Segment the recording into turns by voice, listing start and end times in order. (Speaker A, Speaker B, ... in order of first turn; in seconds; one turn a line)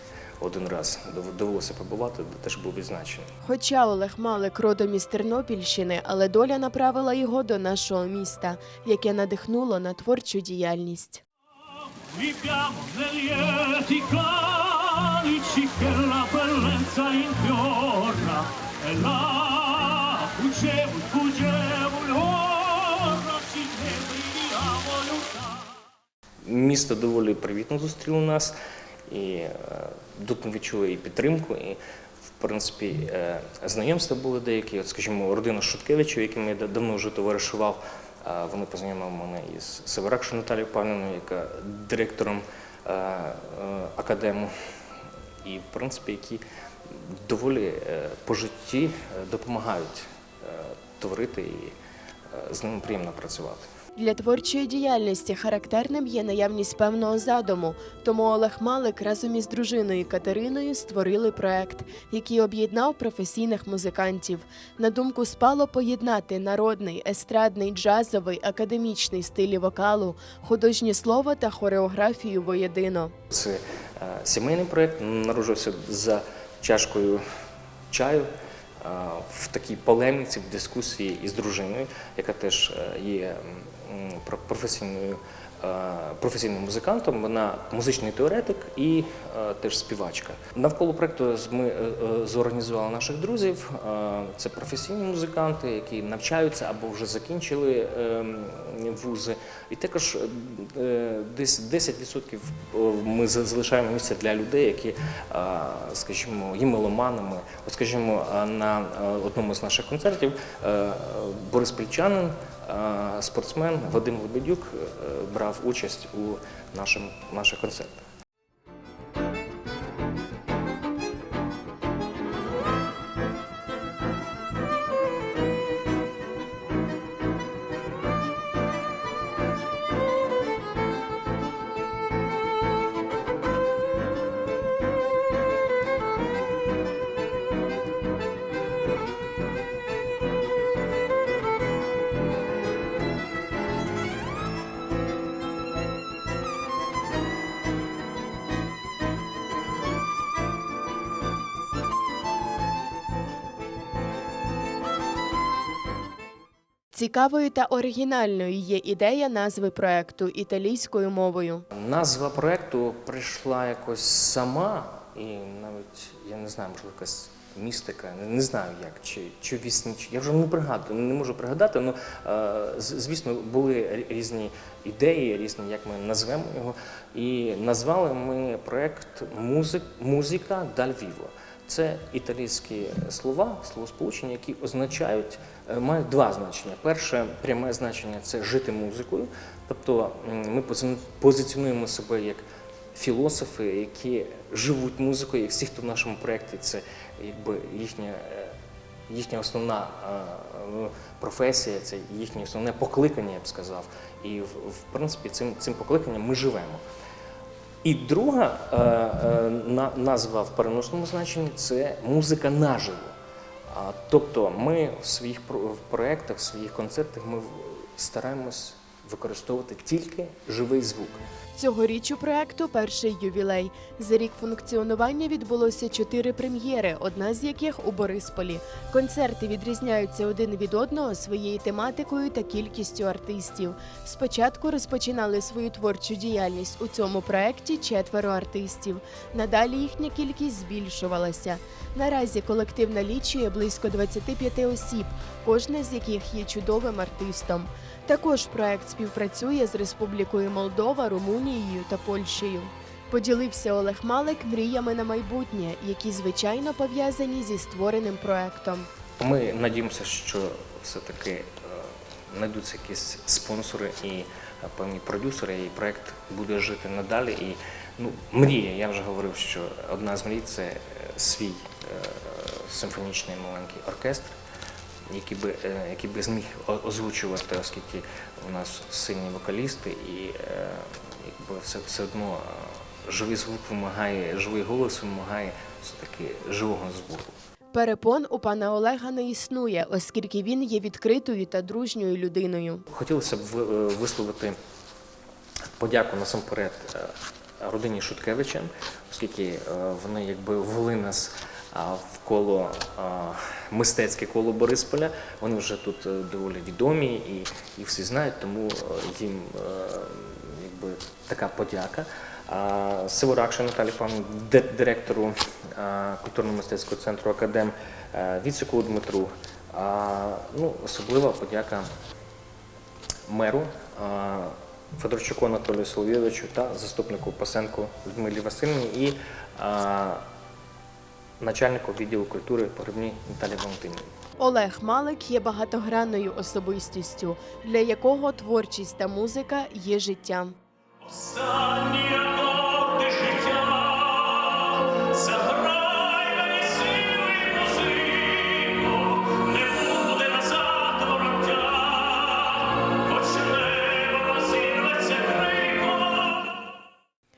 Speaker A: 0.4-3.3
Speaker B: 3.4-11.2
Speaker C: 12.0-25.8
Speaker A: 26.4-28.5
Speaker A: 29.1-31.8
Speaker A: 32.4-44.5
Speaker A: 45.4-51.7
Speaker A: 52.3-53.7
Speaker B: 54.0-73.1
Speaker A: 73.3-77.2
Speaker A: 77.9-78.3
Speaker A: 78.8-118.0
Speaker B: 156.9-161.7
Speaker A: 161.7-198.6
Speaker A: 199.1-206.8
Speaker A: 207.8-213.1
Speaker A: 213.7-221.2
Speaker B: 221.5-258.9
Speaker A: 259.2-274.4
Speaker A: 275.1-287.4
Speaker B: 287.7-292.9
Speaker A: 292.9-294.6
Speaker A: 295.8-321.9
Speaker A: 323.3-330.2
Speaker A: 331.4-334.1
Speaker B: 334.4-340.6
Speaker C: 341.0-356.5